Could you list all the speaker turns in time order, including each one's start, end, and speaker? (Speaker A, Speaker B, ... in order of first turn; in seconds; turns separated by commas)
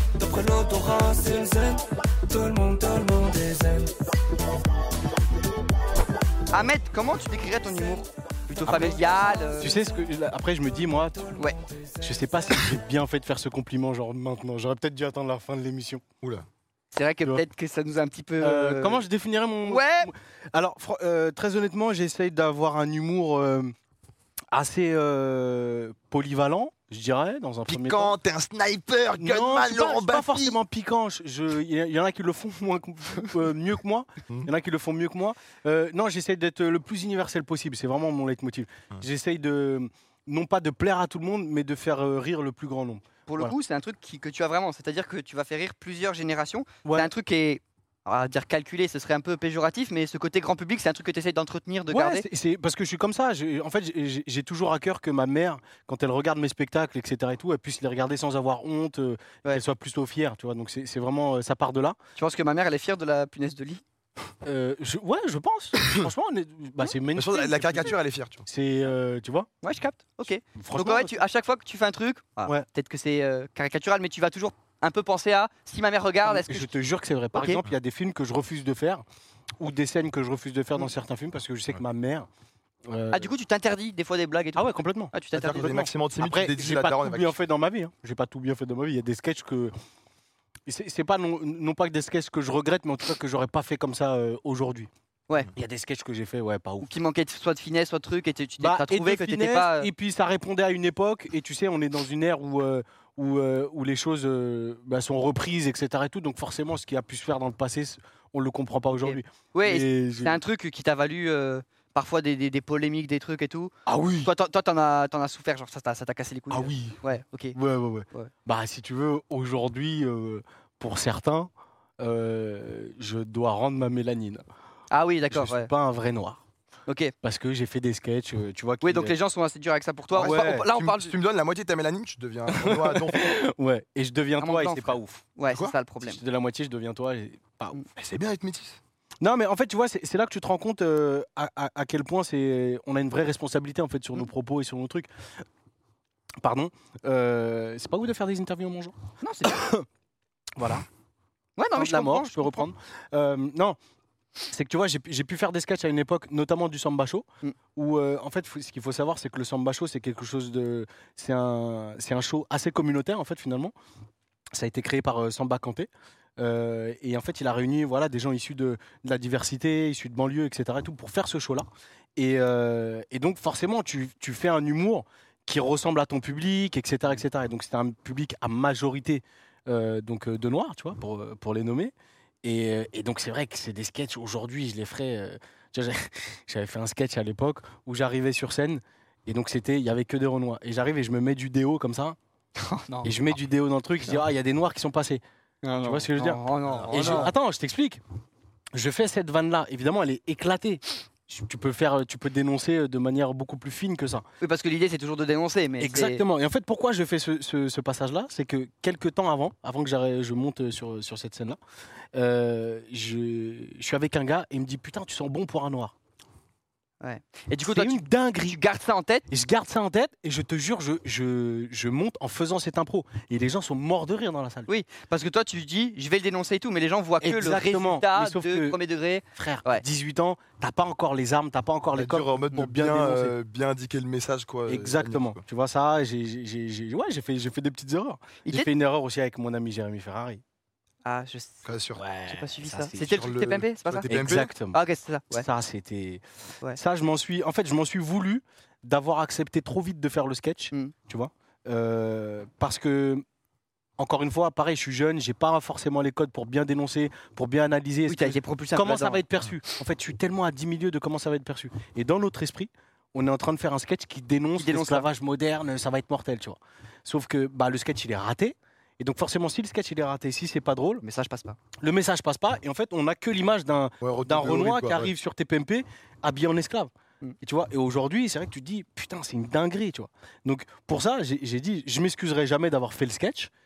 Speaker A: 0.2-3.9, Speaker B: 6.5-9.7, Speaker C: 8.7-9.0, Speaker C: 9.5-11.4, Speaker B: 11.4-11.6, Speaker C: 12.0-16.0, Speaker B: 16.9-19.0, Speaker C: 18.4-23.7, Speaker B: 19.6-20.1, Speaker C: 24.5-28.1, Speaker D: 27.7-30.6, Speaker C: 29.2-43.5, Speaker B: 43.3-52.3, Speaker C: 46.9-47.1, Speaker C: 51.9-62.0, Speaker B: 62.2-63.8, Speaker C: 64.4-68.0, Speaker D: 67.2-68.5, Speaker C: 68.5-69.5, Speaker B: 69.6-76.7, Speaker C: 70.5-71.2, Speaker C: 76.2-79.0, Speaker B: 77.3-77.6, Speaker C: 79.6-82.3, Speaker C: 82.9-83.3, Speaker B: 83.1-85.9, Speaker C: 84.6-85.1, Speaker D: 85.3-87.5, Speaker C: 86.2-89.7, Speaker C: 90.7-94.9, Speaker C: 95.5-96.9, Speaker B: 96.8-99.9, Speaker C: 98.6-110.4, Speaker B: 109.0-117.6, Speaker C: 113.9-114.3, Speaker C: 116.5-117.0, Speaker C: 117.5-124.5, Speaker B: 124.9-125.7, Speaker C: 125.3-126.4, Speaker B: 126.9-127.1, Speaker C: 127.2-129.2, Speaker B: 128.8-131.2, Speaker C: 130.1-130.7, Speaker D: 130.2-133.3, Speaker C: 132.5-135.2, Speaker B: 134.4-136.2, Speaker D: 135.5-135.8, Speaker C: 136.0-137.8, Speaker D: 138.0-138.8, Speaker C: 139.2-145.1, Speaker C: 146.4-149.9, Speaker B: 149.2-149.6, Speaker C: 150.6-150.9, Speaker B: 151.6-152.7, Speaker C: 151.8-153.8, Speaker C: 154.5-157.2, Speaker C: 157.8-163.7, Speaker C: 164.6-192.2, Speaker B: 192.6-193.2, Speaker C: 193.0-195.2, Speaker B: 195.6-197.3, Speaker C: 195.8-198.0, Speaker D: 196.7-197.3, Speaker C: 198.8-204.3, Speaker B: 204.4-206.2, Speaker C: 205.8-211.6, Speaker C: 212.2-215.9, Speaker B: 217.0-219.3, Speaker C: 217.7-218.6, Speaker C: 219.3-224.7, Speaker B: 224.7-229.8, Speaker C: 227.2-228.8, Speaker C: 229.3-233.3, Speaker D: 231.9-235.4, Speaker C: 234.7-240.4, Speaker B: 238.4-238.7, Speaker B: 241.1-241.7, Speaker D: 241.7-242.0, Speaker C: 241.9-243.2, Speaker B: 242.3-245.5, Speaker D: 243.0-244.5, Speaker C: 244.1-244.8, Speaker C: 245.3-253.2, Speaker C: 254.0-271.0, Speaker B: 258.1-259.2, Speaker B: 264.6-265.1, Speaker B: 271.0-271.6, Speaker C: 271.8-283.5, Speaker D: 274.0-275.1